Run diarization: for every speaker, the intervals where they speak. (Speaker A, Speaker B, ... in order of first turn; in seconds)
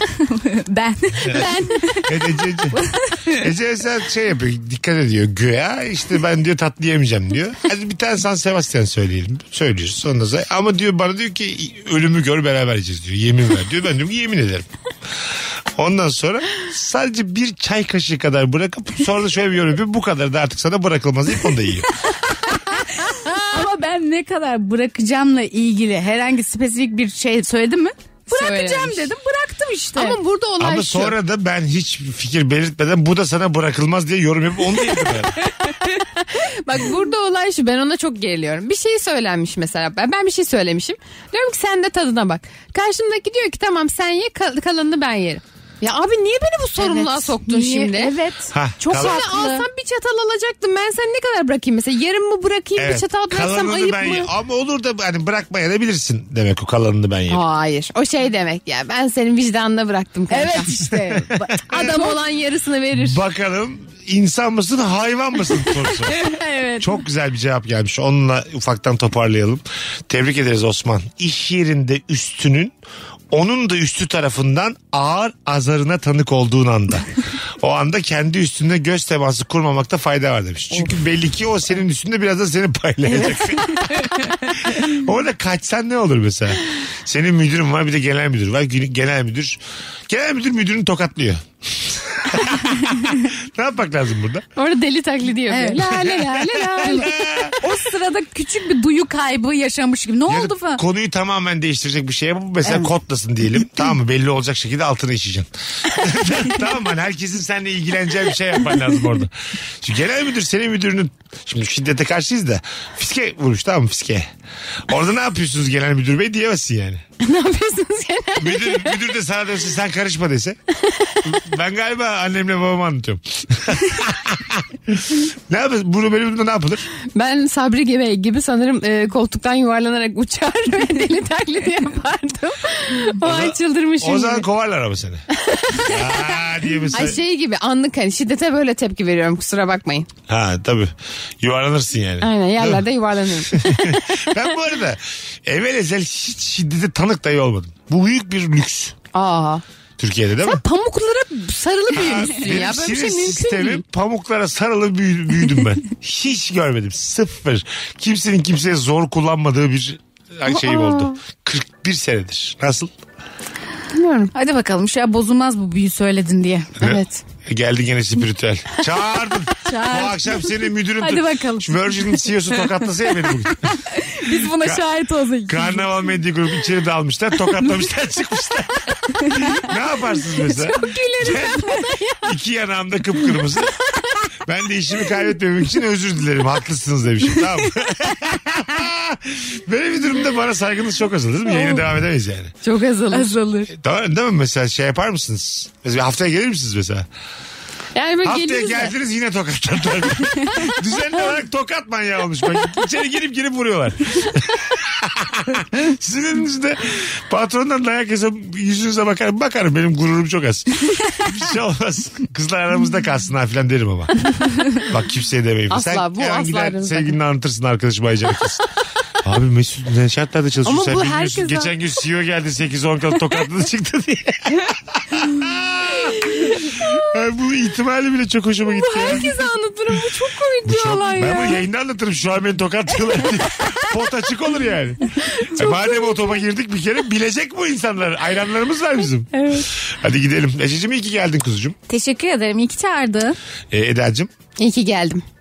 Speaker A: 0.1-1.7, 2.7-3.5, 23.5-30.2, 46.8-49.7, 60.3-62.1, 66.0-67.0, 92.8-93.1, 95.5-96.2, 96.8-100.8, 102.6-102.9, 150.4-152.2, 164.3-166.7, 169.6-172.6, 173.6-175.8, 193.1-193.7, 239.4-239.6, 241.9-243.3
Speaker B: 1.2-14.7, 15.8-21.9, 30.6-35.3, 48.5-49.3, 52.8-57.4, 60.8-61.9, 63.0-72.8, 73.3-77.1, 77.6-94.5, 95.8-97.5, 100.3-114.3, 114.9-117.0, 118.4-120.6, 121.2-126.9, 133.2-135.2, 135.8-137.2, 140.3-142.8, 143.4-148.9, 150.0-150.6, 151.9-162.9, 166.8-173.8, 174.4-174.8, 175.5-183.7, 184.4-192.5, 193.7-197.1, 198.2-218.6, 219.2-229.2, 230.6-241.8, 243.7-244.3
Speaker C: 1.3-1.9, 28.3-29.1, 29.9-31.1, 36.0-48.1, 48.9-54.3, 57.3-60.7, 61.7-63.2, 94.5-97.2, 117.2-118.9, 120.9-121.2, 127.1-134.4, 135.5-135.9, 136.9-140.1, 142.2-144.0, 149.1-149.6, 151.7-153.8, 160.5-161.1, 163.9-164.3, 166.8-167.2, 180.5-182.3, 191.5-191.8, 192.6-193.3, 197.9-198.9, 215.7-217.1, 220.6-221.7, 226.1-227.1, 228.8-231.6, 235.4-236.2, 244.6-245.2